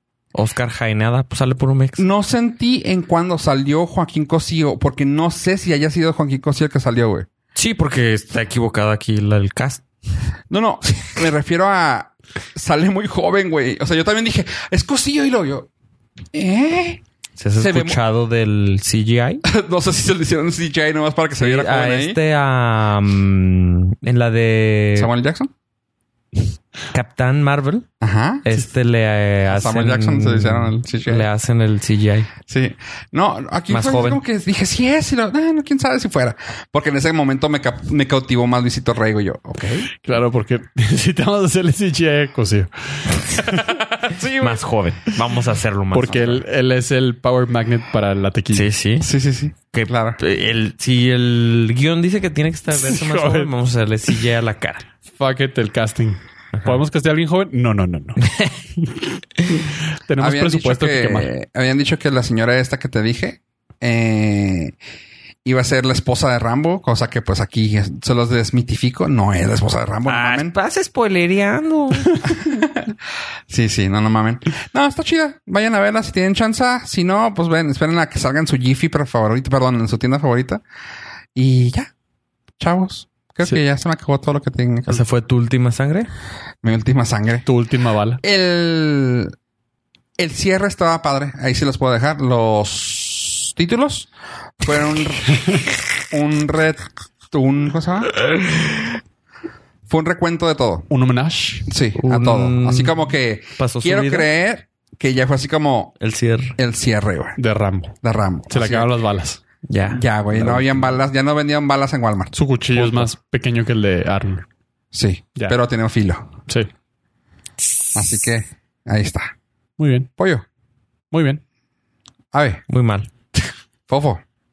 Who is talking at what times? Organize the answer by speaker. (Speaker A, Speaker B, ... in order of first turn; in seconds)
Speaker A: 0.3-2.0, 7.5-9.8, 17.4-19.4, 21.4-25.1, 26.9-27.9, 28.4-32.3, 33.7-34.2, 44.3-46.4, 48.5-49.1, 49.7-54.8, 56.5-56.8, 58.2-58.5, 70.1-72.4, 84.9-86.1, 101.9-103.0, 103.6-104.3, 106.0-106.6, 109.7-110.9, 112.8-113.1, 122.7-123.1
Speaker B: 2.0-7.3, 10.5-15.7, 16.3-17.0, 17.6-18.0, 19.4-22.2, 24.9-25.5, 28.0-28.5, 29.5-31.3, 32.5-39.9, 43.6-44.6, 49.0-50.2, 60.2-64.7, 65.4-70.5, 72.2-73.0, 73.5-80.6, 81.3-81.9, 82.6-85.0, 86.6-87.4, 88.2-89.3, 90.2-94.1, 94.6-98.3, 99.9-100.9, 101.7-106.0, 106.6-107.4, 108.0-108.9, 109.9-113.0, 114.9-116.3, 117.9-119.3, 120.2-120.4, 122.3-122.6, 123.9-124.2
Speaker C: 40.0-43.7, 45.9-48.7, 52.8-53.5, 55.1-58.2, 58.9-61.3, 87.5-88.2, 100.9-101.7, 107.4-108.0, 108.5-109.4, 112.3-114.4, 119.8-120.1, 121.1-121.4